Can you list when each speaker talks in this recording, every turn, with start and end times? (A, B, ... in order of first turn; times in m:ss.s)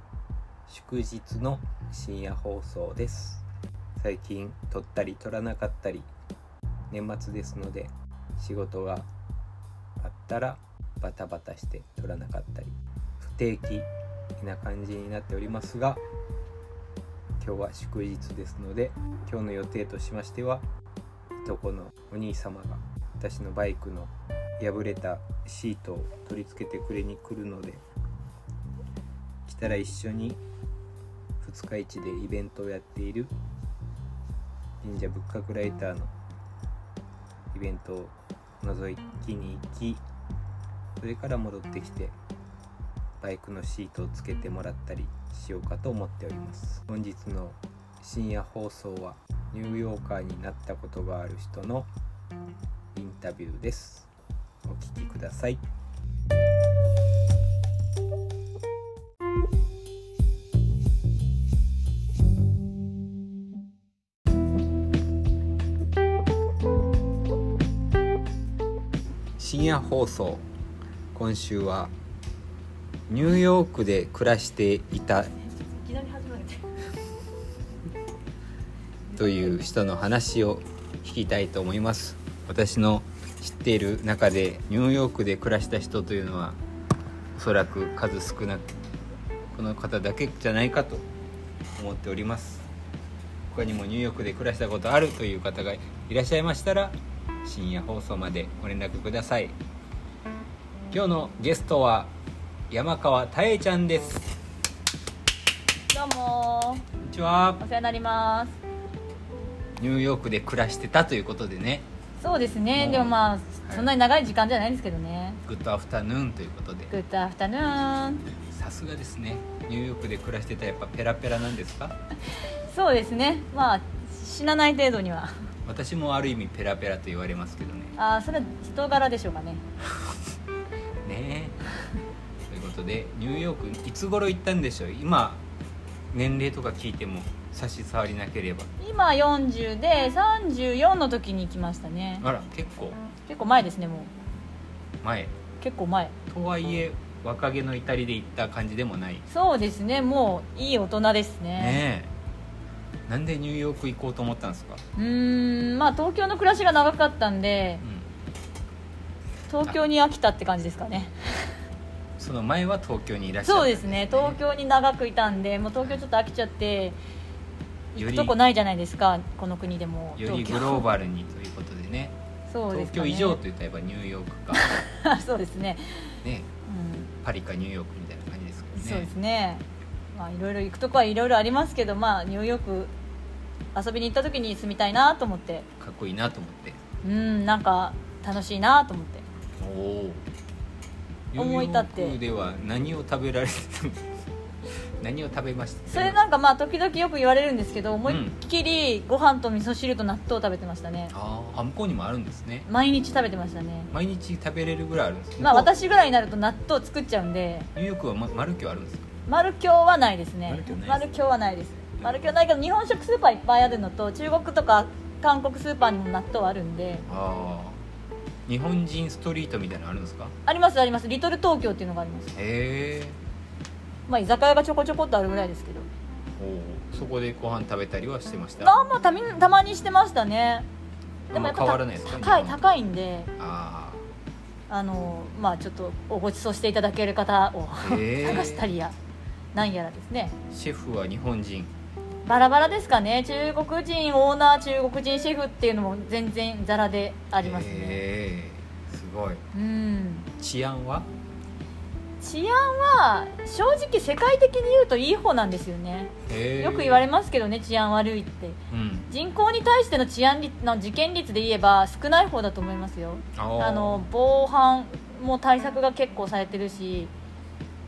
0:00.7-0:03.4 A
0:04.0-0:06.1 A
0:06.9-0:09.1 A
0:10.0-0:13.9 A
0:14.4-0:16.0 A
0:17.4-0:20.6 A
0:21.4-0:27.8 A
0:29.5-0:30.4 A
0:31.4-0:33.3 A
0:34.8-0:36.1 A
0:37.5-0:40.0 A
0:41.0-0:42.2 A
0:43.2-0:51.9 A
0:52.9-0:54.1 A
0:54.6-0:55.6 A
1:09.4-1:10.4 A
1:11.1-1:11.9 A
1:13.1-1:15.3 A
1:15.8-1:16.6 B
1:19.1-1:26.6 A
1:27.4-1:28.7 A
1:29.5-1:31.1 A
1:31.8-1:32.7 A
1:33.5-1:39.6 A
1:40.9-1:42.1 A
1:42.7-1:44.3 A
1:45.9-1:46.8 B
1:47.0-1:47.6 A
1:47.6-1:48.6 B
1:49.8-1:51.8 A
1:52.2-1:55.4 B
1:52.7-1:53.9 A
1:55.4-1:56.9 A
1:56.9-1:58.3 B
1:58.5-2:02.0 A
2:02.7-2:05.3 B
2:05.6-2:08.0 A
2:08.0-2:09.6 B
2:11.0-2:11.6 A
2:12.5-2:15.4 A
2:16.1-2:18.7 A
2:18.8-2:22.2 B
2:22.2-2:23.0 A
2:23.3-2:24.1 B
2:25.0-2:25.3 A
2:25.6-2:26.2 B
2:26.3-2:29.2 A
2:29.3-2:31.8 B
2:31.6-2:32.1 A
2:33.1-2:34.8 A
2:35.0-2:37.8 B
2:37.8-2:38.1 A
2:39.5-2:41.4 B
2:42.2-2:44.4 A
2:43.4-2:47.0 B
2:48.0-2:50.9 B
2:48.0-2:48.4 A
2:50.2-2:52.2 A
2:52.5-2:53.4 B
2:52.7-2:54.7 A
2:54.6-2:56.1 B
2:56.2-2:56.5 A
2:56.7-2:57.1 B
2:57.2-2:59.1 A
2:58.8-3:02.9 B
3:03.8-3:05.7 B
3:05.8-3:06.8 A
3:07.0-3:09.2 B
3:09.6-3:10.3 A
3:11.3-3:14.1 A
3:11.4-3:12.2 B
3:15.0-3:16.2 A
3:15.9-3:21.1 B
3:18.1-3:18.4 A
3:21.1-3:22.7 A
3:22.7-3:23.9 B
3:23.9-3:25.7 A
3:25.4-3:27.7 B
3:27.8-3:29.1 A
3:29.3-3:37.0 B
3:30.5-3:31.1 A
3:32.0-3:32.3 A
3:37.1-3:37.8 A
3:38.5-3:40.3 A
3:40.5-3:42.4 B
3:42.3-3:43.2 A
3:44.1-3:45.9 B
3:46.4-3:48.8 A
3:48.6-3:50.7 B
3:51.3-3:52.6 A
3:51.3-3:53.3 B
3:53.4-3:54.1 A
3:54.7-3:59.0 B
3:57.8-3:58.7 A
3:59.5-4:00.4 B
4:00.5-4:01.7 A
4:02.2-4:08.0 B
4:07.4-4:09.4 A
4:09.5-4:10.3 B
4:10.4-4:11.1 A
4:12.2-4:27.1 B
4:16.3-4:17.1 A
4:18.7-4:19.1 A
4:23.4-4:24.0 A